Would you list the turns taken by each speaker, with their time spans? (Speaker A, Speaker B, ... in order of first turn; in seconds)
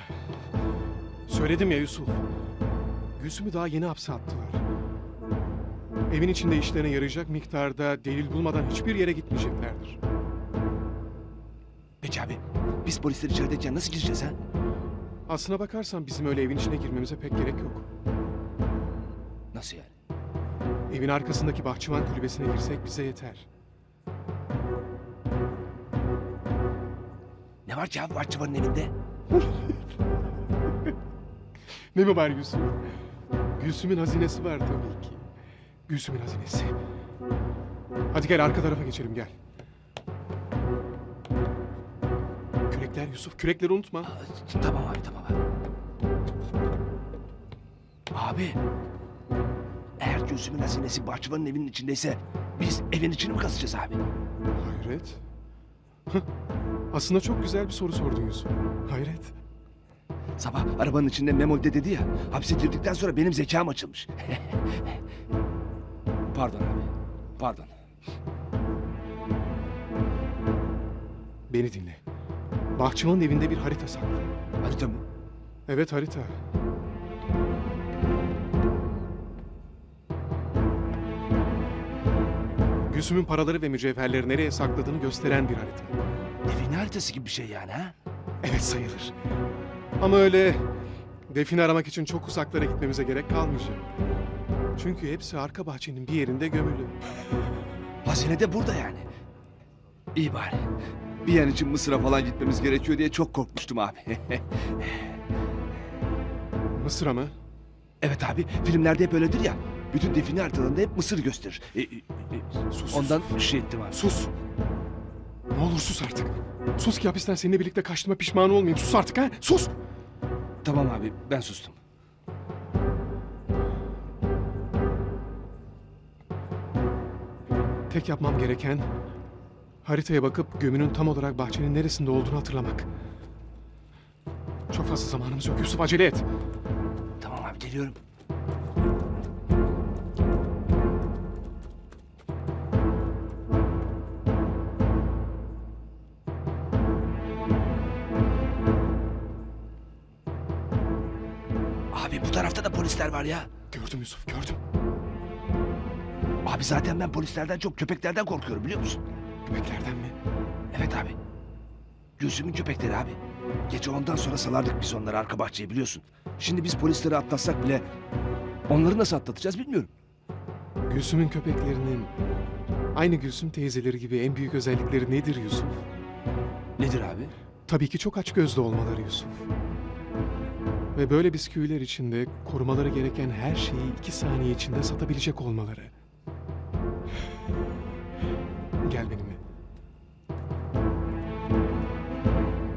Speaker A: 1.3-2.2, 3.2-4.6, 6.1-10.0, 15.3-17.9, 20.9-23.5, 29.3-29.8, 31.9-32.8, 33.5-35.2, 35.9-36.8, 38.1-39.3, 42.7-44.1, 54.5-55.2, 56.9-59.3, 71.5-72.0, 72.7-74.3, 75.7-76.3, 82.9-86.0, 88.4-89.1, 90.0-90.6, 91.3-93.8, 94.8-97.0, 106.7-107.3, 112.7-113.3, 113.9-114.3, 115.5-119.7, 127.9-128.9, 129.8-132.9, 134.7-136.2, 153.7-154.6, 159.4-160.2, 170.9-172.1, 172.9-175.8, 177.7-179.5, 180.9-185.9, 188.8-189.4
Speaker B: 12.0-14.4, 19.5-19.9, 27.6-28.9, 44.0-45.4, 48.1-48.6, 50.0-54.0, 60.4-65.0, 66.3-67.7, 74.6-75.0, 86.4-87.9, 98.0-99.1, 100.1-105.1, 108.0-114.0, 120.6-121.8, 137.2-138.0, 151.9-153.5, 156.4-159.0, 160.7-161.2, 162.2-167.8, 168.7-169.9, 176.8-177.3